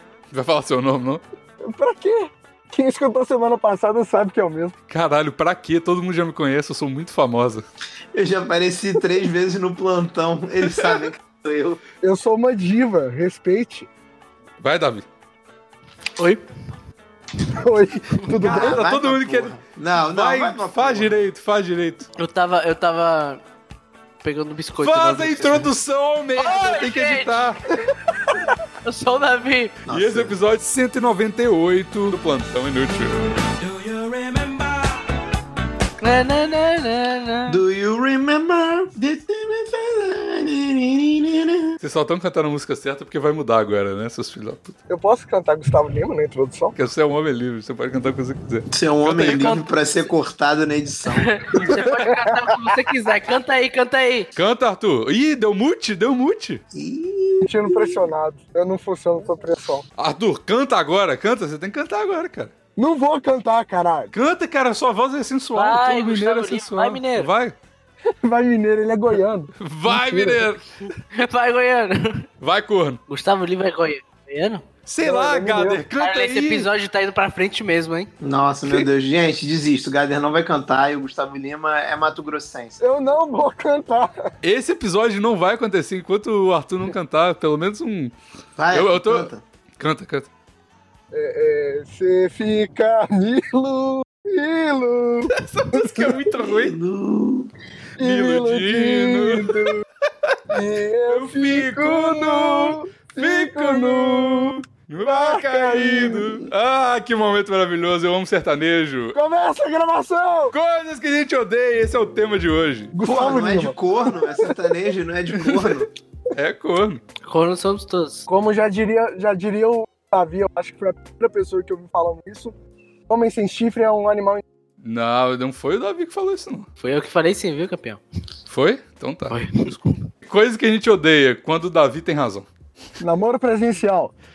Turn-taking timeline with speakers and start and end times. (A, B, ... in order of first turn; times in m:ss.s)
0:00.3-0:01.2 A
0:01.6-0:04.8 B
0:04.9-0:07.6 A
0:08.1-0:11.8 C
0:12.0-0:13.9 B
0:14.6-0:15.0 A
0:16.2-0:16.4 D
0:17.6-0:18.8 B
0:18.4-0:21.2 C
0:18.5-0:22.1 A
0:22.2-0:23.4 D
0:24.2-0:25.7 D
0:24.8-0:27.6 A
0:26.4-0:27.5 D
0:28.8-0:29.8 D
0:29.8-0:30.3 C
0:29.9-0:33.4 A
0:33.8-0:34.6 D
0:36.0-0:37.6 D
0:37.5-0:41.8 C
0:41.8-0:44.8 A
0:44.9-0:46.8 B
0:46.8-0:49.7 A
0:48.7-0:51.7 C
0:51.1-0:54.3 D
0:52.0-0:52.7 B
0:54.3-0:56.6 A
0:56.7-0:58.0 C
0:57.4-0:59.8 B
1:00.0-1:02.5 A
1:02.8-1:04.1 B
1:04.1-1:07.6 A
1:05.6-1:07.3 D
1:08.2-1:10.5 B
1:09.6-1:10.7 A
1:11.0-1:12.3 D
1:12.4-1:13.0 A
1:13.1-1:14.6 D
1:14.8-1:16.7 A
1:15.0-1:15.8 B
1:16.0-1:18.1 D
1:18.2-1:22.8 C
1:22.8-1:24.1 B
1:24.4-1:28.1 A
1:28.6-1:29.4 C
1:28.7-1:30.3 A
1:31.1-1:36.2 B
1:35.3-1:36.8 A
1:36.4-1:37.5 C
1:38.0-1:39.8 B
1:38.0-1:39.7 A
1:40.5-1:46.5 B
1:41.1-1:49.2 A
1:49.1-1:50.5 B
1:50.5-1:53.0 A
1:52.9-1:54.8 B
1:53.0-1:55.9 C
1:55.3-1:57.0 A
1:57.2-1:58.3 D
1:58.3-2:02.5 B
2:03.1-2:04.4 B
2:04.8-2:06.7 A
2:06.8-2:08.0 D
2:08.5-2:12.5 A
2:09.3-2:10.0 D
2:13.0-2:14.1 B